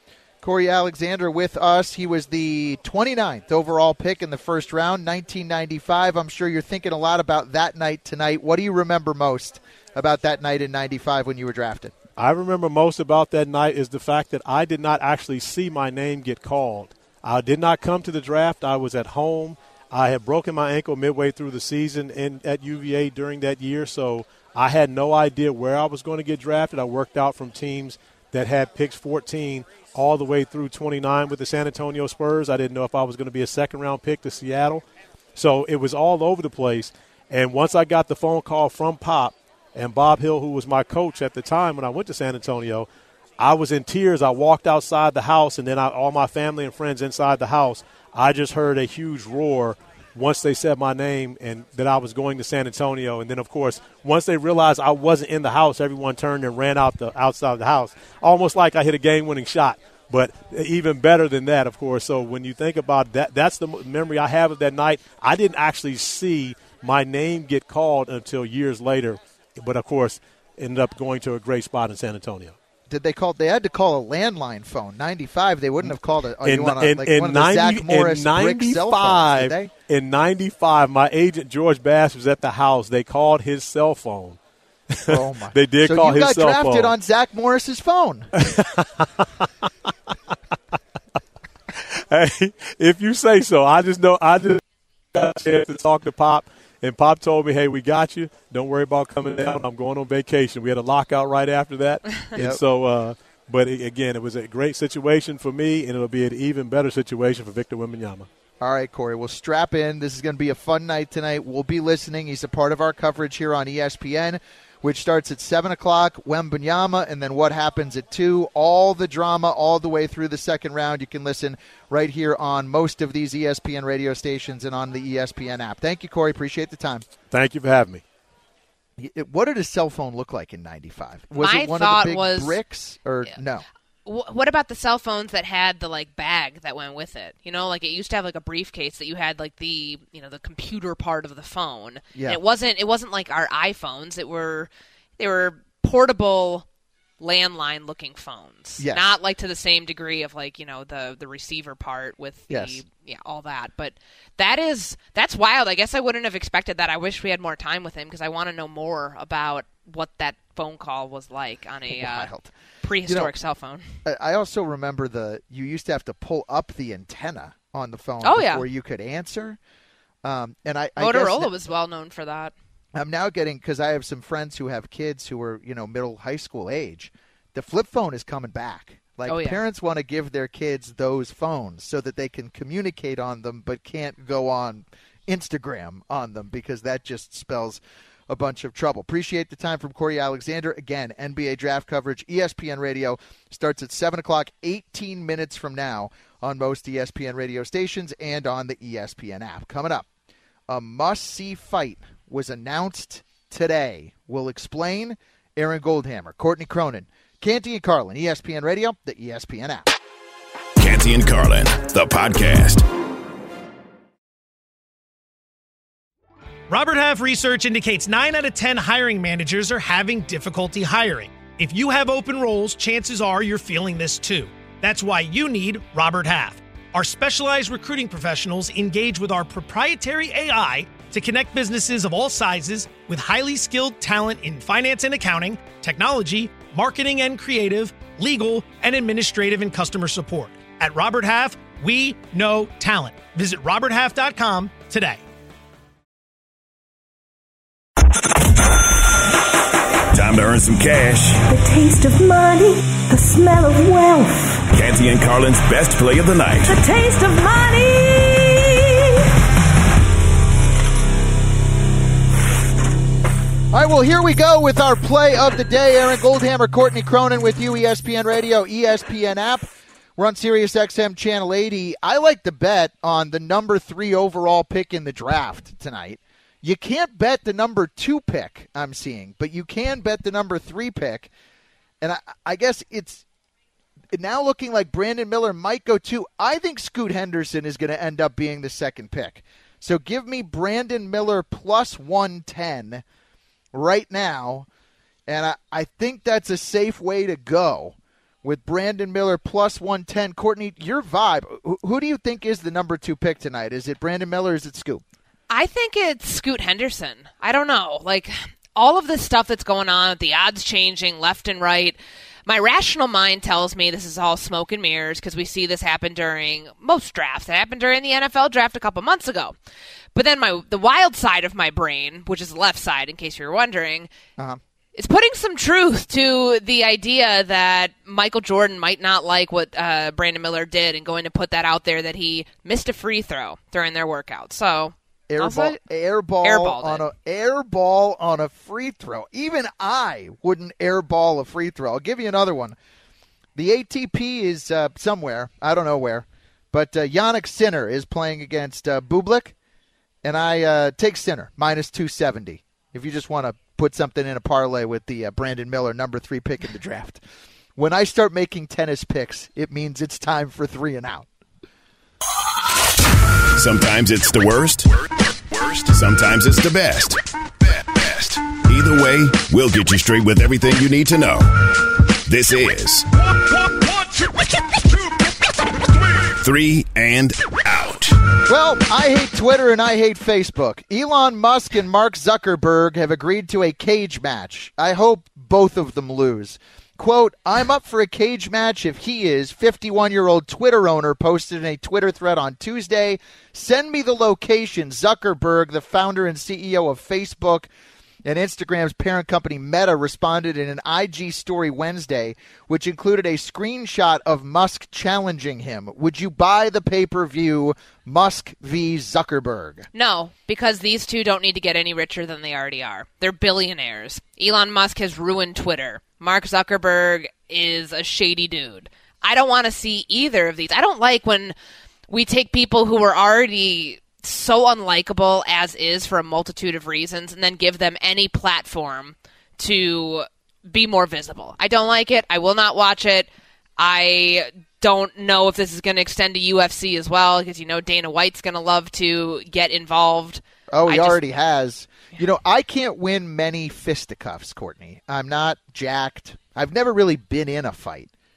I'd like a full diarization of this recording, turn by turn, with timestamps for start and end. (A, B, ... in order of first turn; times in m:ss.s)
0:00.4-0:12.0 A
0:12.2-0:42.9 B
0:43.4-1:12.6 B
1:12.9-1:19.7 A
1:15.8-1:24.4 B
1:24.9-1:26.9 B
1:25.1-1:28.3 A
1:28.4-1:29.4 B
1:32.1-1:34.6 B
1:35.1-1:48.3 B
1:42.3-1:42.6 A
1:48.6-2:07.1 A
2:07.3-2:08.0 B
2:09.0-2:13.6 A
2:11.4-2:12.6 C
2:14.0-2:26.6 C
2:22.1-2:22.4 A
2:27.2-2:42.3 C
2:28.8-2:29.1 A
2:32.5-2:32.8 A
2:41.9-2:42.5 A
2:42.8-2:43.9 C
2:43.0-2:43.3 A
2:44.0-2:49.6 A
2:48.2-2:48.6 C
2:50.2-2:51.5 A
2:51.0-2:52.5 C
2:52.9-3:20.0 A
2:59.3-2:59.6 C
3:20.7-3:29.9 A
3:30.8-3:32.8 D
3:36.7-4:05.2 E
4:10.1-4:11.4 D
4:11.5-4:14.4 F
4:14.7-4:16.7 D
4:16.6-4:19.1 F
4:23.7-4:41.3 A
4:42.0-4:43.2 A
4:44.1-4:53.0 A
4:53.7-4:54.7 A
4:55.3-5:05.0 A
5:05.5-5:19.6 C
5:20.1-5:24.1 C
5:24.9-5:35.8 C
5:35.3-5:42.8 A
5:36.4-5:37.1 C
5:43.6-5:49.5 A
5:50.2-5:57.2 A
5:57.8-6:01.3 A
6:03.6-6:04.9 D
6:05.5-6:07.2 D
6:07.7-6:11.5 D
6:12.2-6:13.1 D
6:16.2-6:18.1 D
6:18.5-6:37.7 A
6:38.2-6:49.8 A
6:49.9-7:01.5 C
7:02.1-7:21.2 C
7:20.7-7:28.1 A